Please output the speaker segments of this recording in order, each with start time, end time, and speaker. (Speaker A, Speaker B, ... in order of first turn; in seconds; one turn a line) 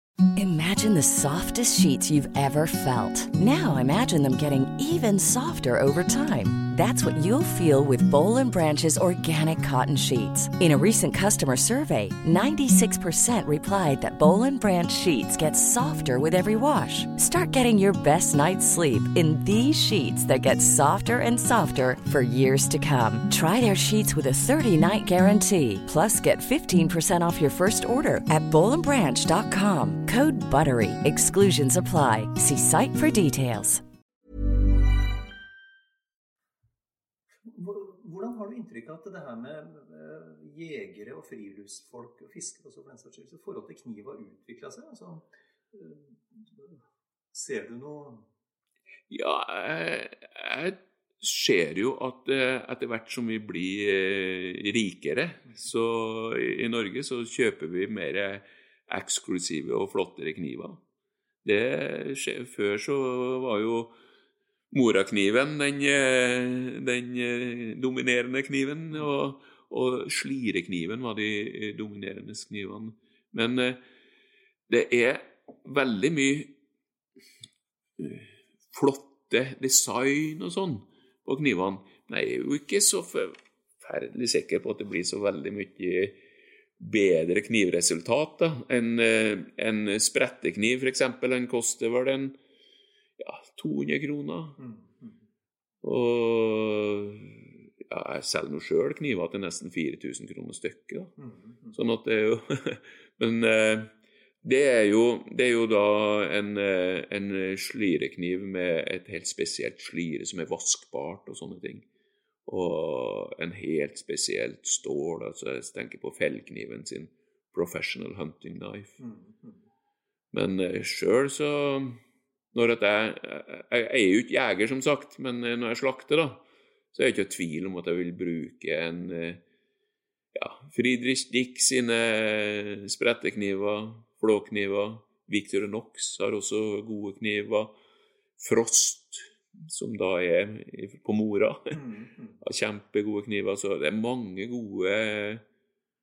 Speaker A: 0.3-33.8
Speaker B: 37.5-46.8
Speaker B: 47.3-48.2
Speaker C: 49.1-60.8
Speaker C: 61.4-63.9
Speaker C: 64.7-73.8
Speaker C: 74.7-76.5
Speaker C: 78.0-86.2
Speaker C: 86.8-92.4
Speaker C: 93.2-94.6
Speaker B: 94.6-95.2
Speaker C: 95.8-101.1
Speaker B: 101.2-101.8
Speaker C: 101.7-103.9
Speaker C: 104.4-111.8
Speaker C: 112.5-119.0
Speaker B: 119.0-119.6
Speaker C: 120.3-122.0
Speaker C: 122.5-126.4
Speaker C: 126.9-129.4
Speaker C: 130.3-137.7
Speaker C: 138.4-141.8
Speaker B: 141.7-142.4
Speaker C: 142.4-145.4